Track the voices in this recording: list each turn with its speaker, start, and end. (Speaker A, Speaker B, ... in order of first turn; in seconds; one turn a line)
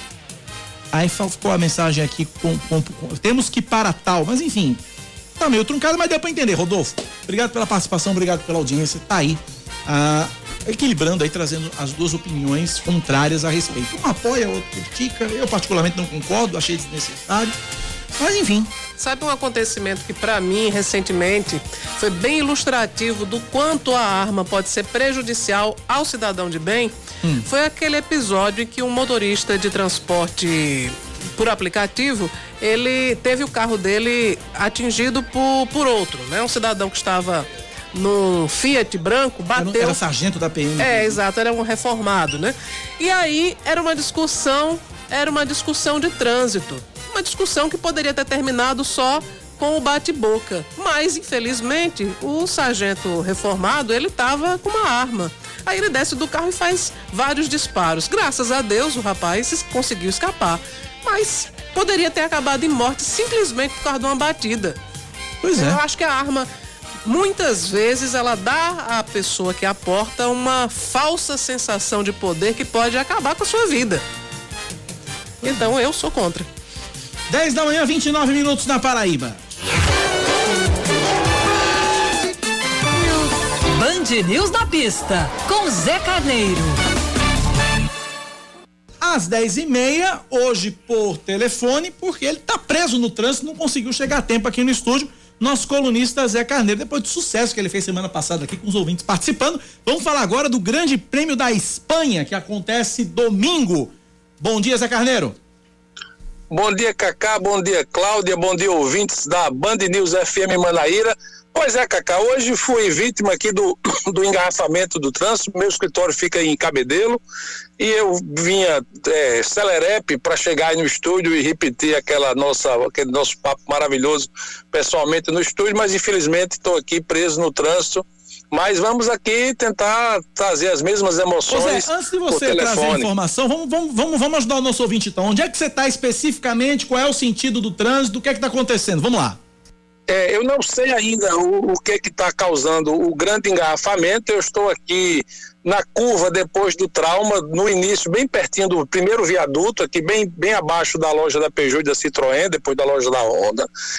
Speaker A: 0.9-4.8
Speaker A: 5.4-17.5
Speaker A: 18.2-18.7
Speaker B: 19.0-40.0
Speaker A: 39.6-41.2
Speaker B: 40.8-64.8
Speaker A: 65.4-65.8
Speaker B: 65.6-66.5
Speaker B: 67.0-74.0
Speaker A: 75.4-75.7
Speaker B: 75.4-76.5
Speaker A: 77.3-79.5
Speaker C: 82.9-86.8
Speaker A: 89.0-105.3
Speaker D: 106.5-117.2
Speaker D: 117.8-133.1
Speaker A: 131.5-139.4
Speaker D: 140.1-153.7